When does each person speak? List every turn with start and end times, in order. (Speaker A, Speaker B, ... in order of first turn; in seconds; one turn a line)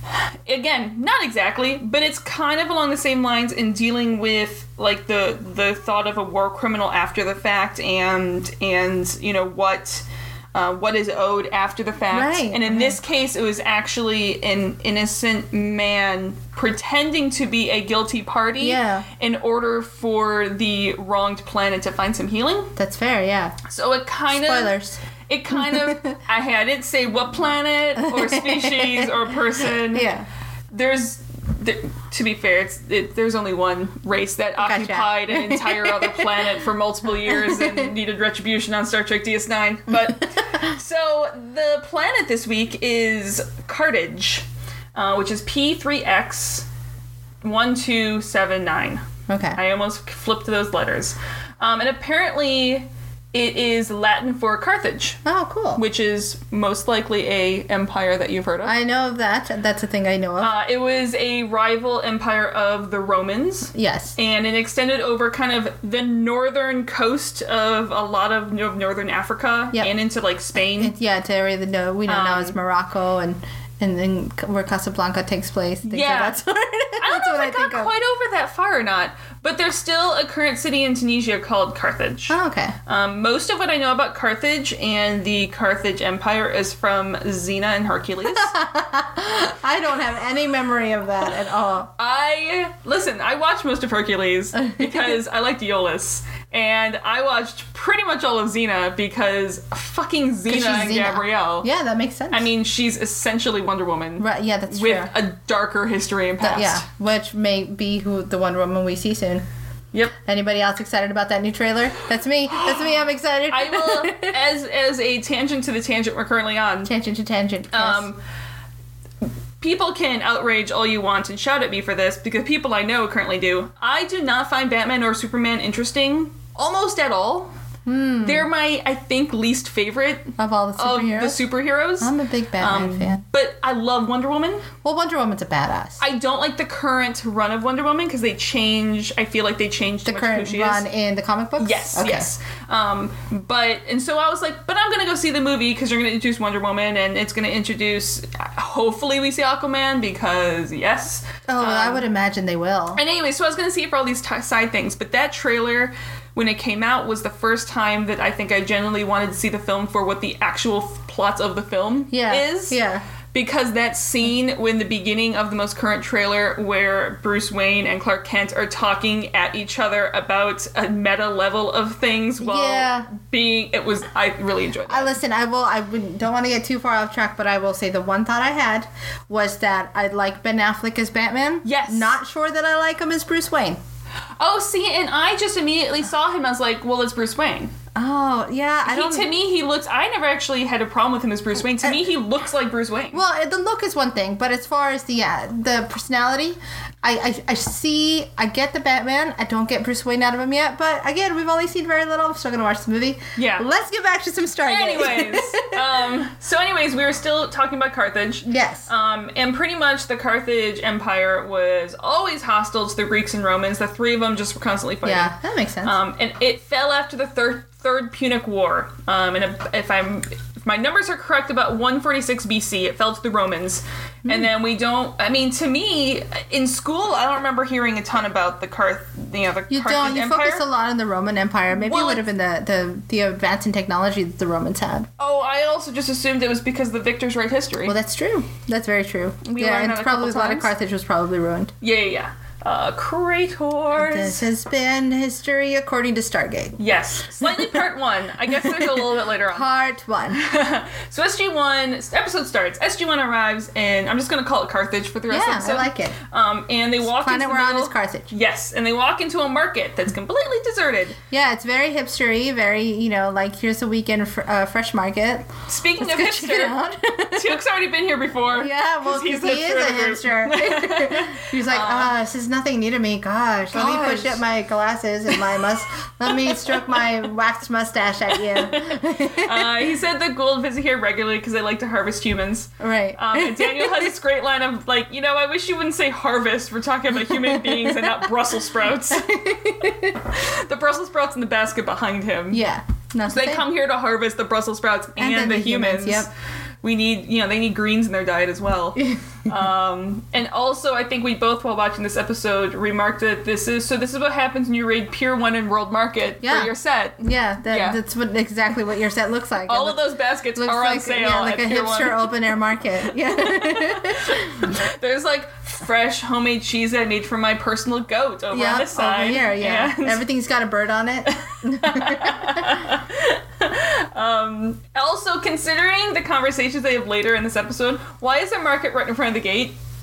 Speaker A: 0.5-22.7
Speaker B: 12.1-13.0
Speaker B: 18.6-19.0
Speaker B: 22.8-23.6
Speaker A: 23.6-24.7
Speaker B: 24.3-26.1
Speaker A: 25.3-30.1
Speaker B: 28.0-29.1
Speaker B: 29.9-30.2
Speaker A: 30.7-46.7
Speaker B: 34.6-36.4
Speaker B: 37.2-37.9
Speaker B: 40.0-40.6
Speaker A: 47.4-55.2
Speaker B: 49.3-49.6
Speaker B: 55.2-55.8
Speaker A: 55.8-58.7
Speaker B: 58.6-60.5
Speaker A: 60.4-70.9
Speaker B: 63.7-64.1
Speaker B: 70.8-77.9
Speaker A: 72.1-72.5
Speaker A: 75.8-76.4
Speaker A: 77.0-88.5
Speaker B: 82.3-82.8
Speaker B: 88.3-91.9
Speaker A: 92.0-101.7
Speaker B: 94.6-95.2
Speaker B: 100.5-102.5
Speaker A: 102.3-106.8
Speaker B: 104.2-105.1
Speaker B: 106.4-109.5
Speaker B: 110.2-114.4
Speaker A: 113.5-116.9
Speaker B: 116.8-118.1
Speaker A: 117.7-118.2
Speaker A: 119.6-127.5
Speaker B: 127.8-128.5
Speaker A: 128.2-134.7
Speaker B: 130.4-131.4
Speaker B: 132.0-133.2
Speaker B: 134.8-136.0
Speaker A: 136.0-140.8
Speaker B: 140.0-142.3
Speaker A: 141.6-152.0
Speaker B: 151.5-153.0
Speaker A: 152.9-162.8
Speaker B: 162.1-163.0
Speaker A: 163.3-175.2
Speaker B: 172.4-173.1
Speaker B: 174.9-183.8
Speaker A: 181.6-182.1
Speaker A: 184.4-187.7
Speaker B: 187.9-189.3
Speaker A: 188.8-193.2
Speaker B: 193.1-206.0
Speaker A: 203.3-203.7
Speaker A: 204.6-230.6
Speaker B: 208.4-208.9
Speaker B: 215.0-215.9
Speaker B: 229.7-235.1
Speaker A: 231.8-232.2
Speaker A: 235.2-237.9
Speaker B: 237.8-241.7
Speaker A: 239.4-240.7
Speaker A: 241.8-244.5
Speaker B: 243.9-246.8
Speaker A: 246.8-249.7
Speaker B: 247.4-247.8
Speaker B: 248.5-250.4
Speaker A: 250.3-261.2
Speaker B: 255.3-256.1
Speaker B: 257.0-258.3
Speaker B: 261.3-267.5
Speaker A: 265.7-266.8
Speaker A: 267.3-272.1
Speaker B: 268.5-279.7
Speaker A: 273.7-274.4
Speaker A: 276.3-276.8
Speaker A: 278.4-289.3
Speaker B: 282.8-284.1
Speaker B: 287.2-288.2
Speaker B: 289.1-290.2
Speaker A: 290.2-292.6
Speaker B: 292.5-293.6
Speaker A: 293.2-296.3
Speaker B: 295.2-296.3
Speaker A: 296.8-308.0
Speaker B: 306.4-310.0
Speaker A: 309.6-312.3
Speaker B: 310.5-314.6
Speaker A: 313.3-320.2
Speaker B: 318.5-322.9
Speaker A: 321.3-329.8